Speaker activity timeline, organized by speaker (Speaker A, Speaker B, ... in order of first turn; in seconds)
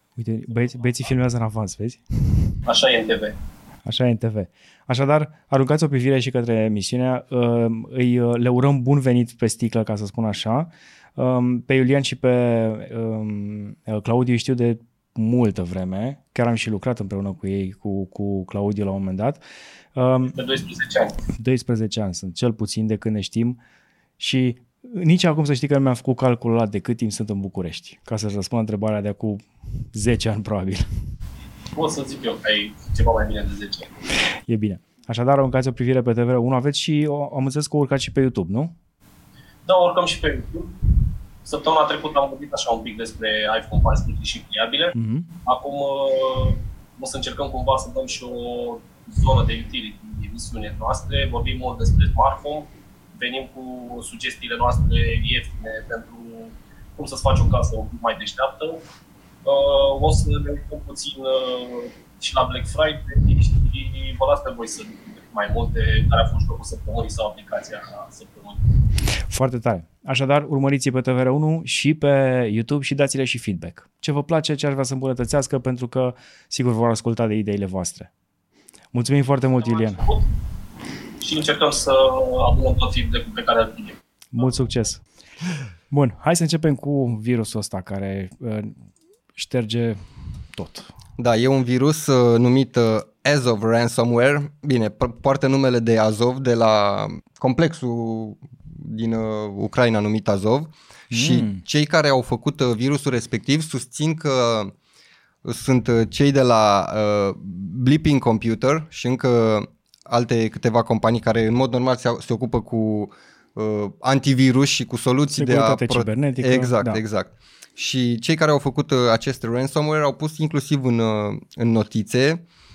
Speaker A: 0.1-2.5, 3.8-19.4, 19.9-20.4, 21.4-23.6, 24.2-30.9, 34.5-38.7, 44.9-45.3, 69.2-78.1, 78.9-80.0, 84.3-85.0, 85.9-88.7, 89.3-90.9, 101.1-101.6, 115.3-117.0
Speaker B: 2.6-3.4, 20.4-21.2, 31.7-33.9, 39.6-40.9, 41.4-58.8, 59.4-68.6, 79.6-80.3, 81.2-84.0
Speaker C: 91.2-104.7, 105.4-122.4